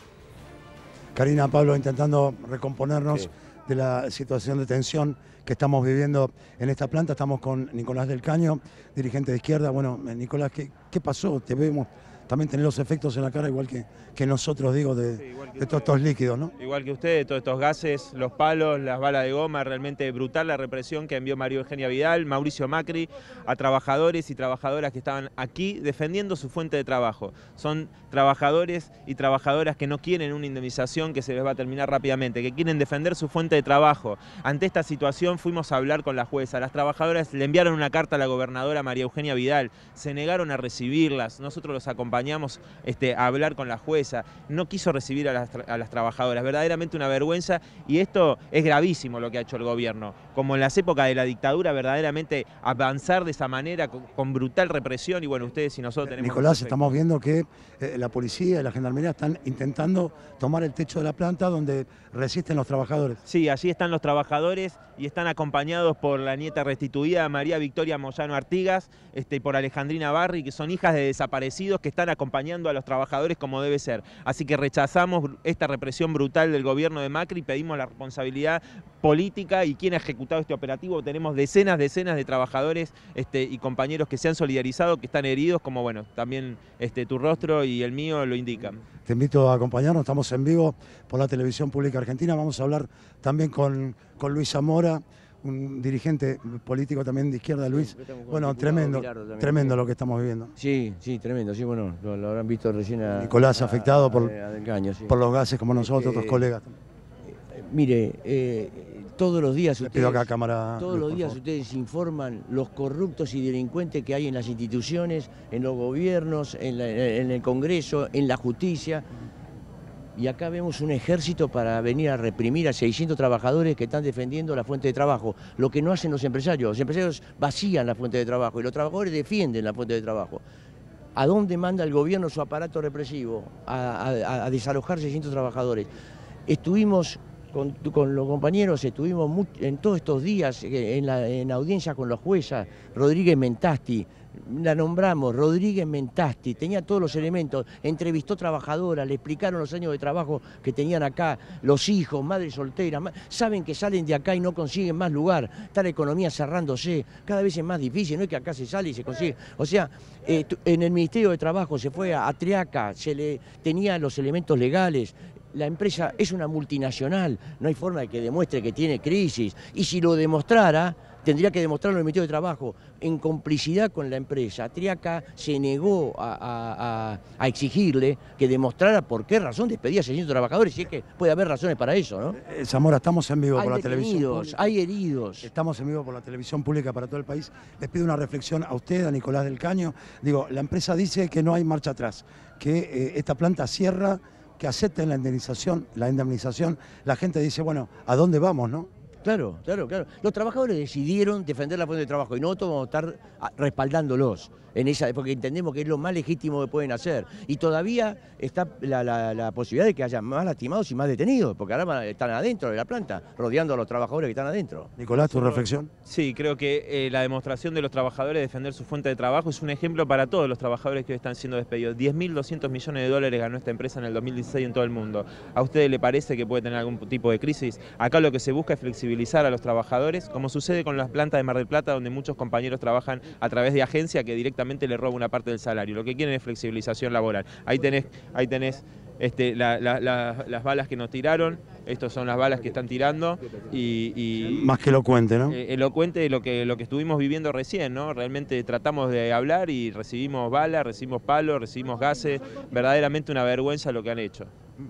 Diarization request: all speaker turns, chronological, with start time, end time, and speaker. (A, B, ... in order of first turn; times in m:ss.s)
0:01.2-0:16.5 A
0:15.4-0:15.9 B
0:16.6-0:56.9 B
0:56.1-1:03.2 A
1:03.3-1:28.8 B
1:29.1-1:40.5 A
1:37.6-1:39.8 C
1:40.6-1:45.1 C
1:43.1-1:44.3 A
1:45.1-1:46.7 A
1:45.8-1:46.5 C
1:47.3-1:50.3 C
1:49.8-1:51.4 A
1:50.8-1:59.1 C
2:00.2-2:10.4 C
2:11.2-2:15.9 C
2:16.5-3:02.4 C
3:02.4-3:04.8 A
3:03.6-3:05.5 C
3:05.4-3:18.9 A
3:19.2-3:34.9 C
3:35.0-3:35.9 A
3:36.1-4:04.7 B
4:04.5-4:05.6 A
4:05.5-4:14.5 B